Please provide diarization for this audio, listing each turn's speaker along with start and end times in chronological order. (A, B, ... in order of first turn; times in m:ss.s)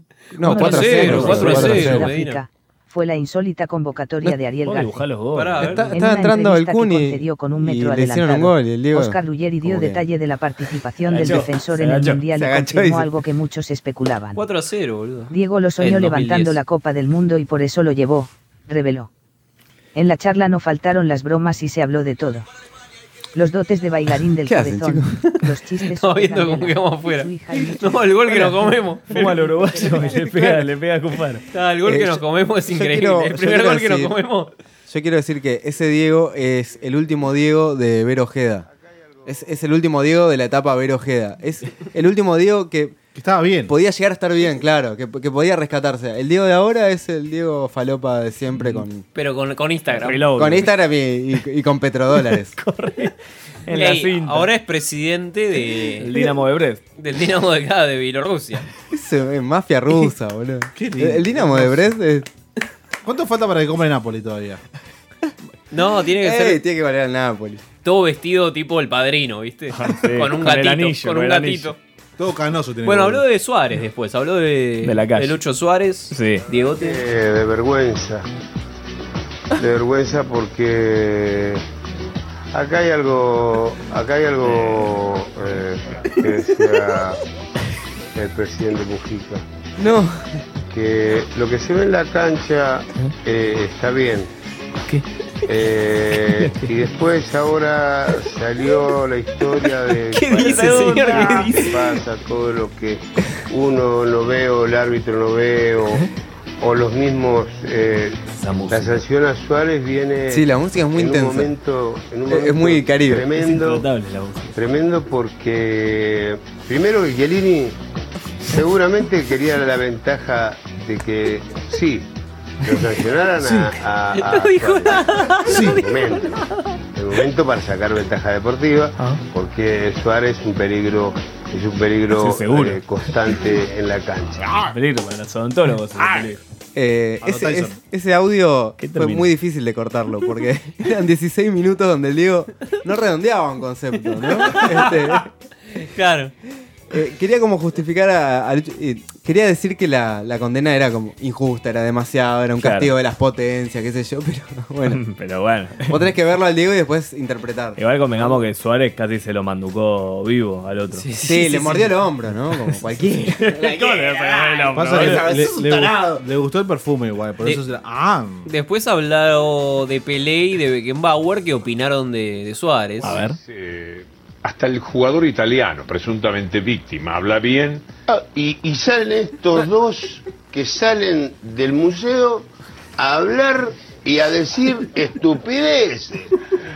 0:00.3-0:02.1 A
0:00.4-0:05.0 B
0:00.5-0:02.4 C
0:01.0-0:01.7 D
0:04.6-0:05.9 D
0:05.3-0:06.0 C
0:05.6-0:10.0 A
0:05.9-0:14.4 B
0:11.1-0:12.2 D
0:11.2-0:11.5 A
0:12.3-0:13.1 A
0:14.3-0:16.6 C
0:15.3-0:19.1 B
0:20.0-0:22.5 B
0:23.4-0:28.0 B
0:24.4-0:25.1 A
0:25.9-0:29.5 C
0:29.1-0:31.4 D
0:29.8-0:30.3 B
0:31.5-0:34.5 C
0:31.8-0:34.1 A
0:34.9-0:38.6 A
0:39.3-0:43.0 A
0:43.1-0:43.7 E
0:43.7-0:49.0 A
0:48.6-0:48.9 D
0:49.1-0:50.2 C
0:49.9-0:50.8 D
0:50.3-0:52.6 A
0:52.3-0:53.1 D
0:53.7-0:54.5 D
0:53.7-0:56.2 C
0:56.0-0:56.8 D
0:57.0-0:58.7 C
0:58.9-1:02.3 A
1:00.7-1:01.9 E
1:03.0-1:04.6 E
1:05.7-1:06.6 C
1:06.2-1:07.6 A
1:07.8-1:11.8 C
1:09.7-1:11.7 D
1:12.2-1:13.2 E
1:12.8-1:17.0 C
1:14.8-1:15.4 D
1:16.1-1:16.4 D
1:16.7-1:18.3 F
1:19.6-1:21.6 F
1:22.5-1:27.2 F
1:28.1-1:29.4 F
1:29.8-1:30.4 A
1:30.7-1:34.3 F
1:35.5-1:46.1 F
1:36.4-1:36.7 D
1:40.2-1:41.7 C
1:46.6-1:53.8 F
1:48.4-1:49.0 D
1:50.3-1:51.5 A
1:52.3-1:53.3 A
1:53.4-1:54.6 D
1:54.6-1:57.8 F
1:58.4-2:02.1 F
2:02.6-2:06.3 F
2:04.1-2:06.2 C
2:05.4-2:05.8 E
2:07.0-2:14.6 F
2:12.1-2:13.0 D
2:14.6-2:16.4 D
2:16.7-2:25.3 A
2:17.2-2:17.8 E
2:18.8-2:19.3 D
2:24.2-2:24.9 C
2:25.8-2:26.3 C
2:26.9-2:35.0 A
2:32.6-2:33.0 D
2:34.9-2:36.0 D
2:35.9-2:38.4 A
2:37.8-2:41.1 D
2:41.0-2:41.3 C
2:41.2-2:45.9 A
2:43.3-2:45.6 D
2:44.7-2:48.5 E
2:48.4-2:53.2 C
2:53.0-2:53.4 D
2:53.4-2:57.8 G
2:58.1-3:06.3 F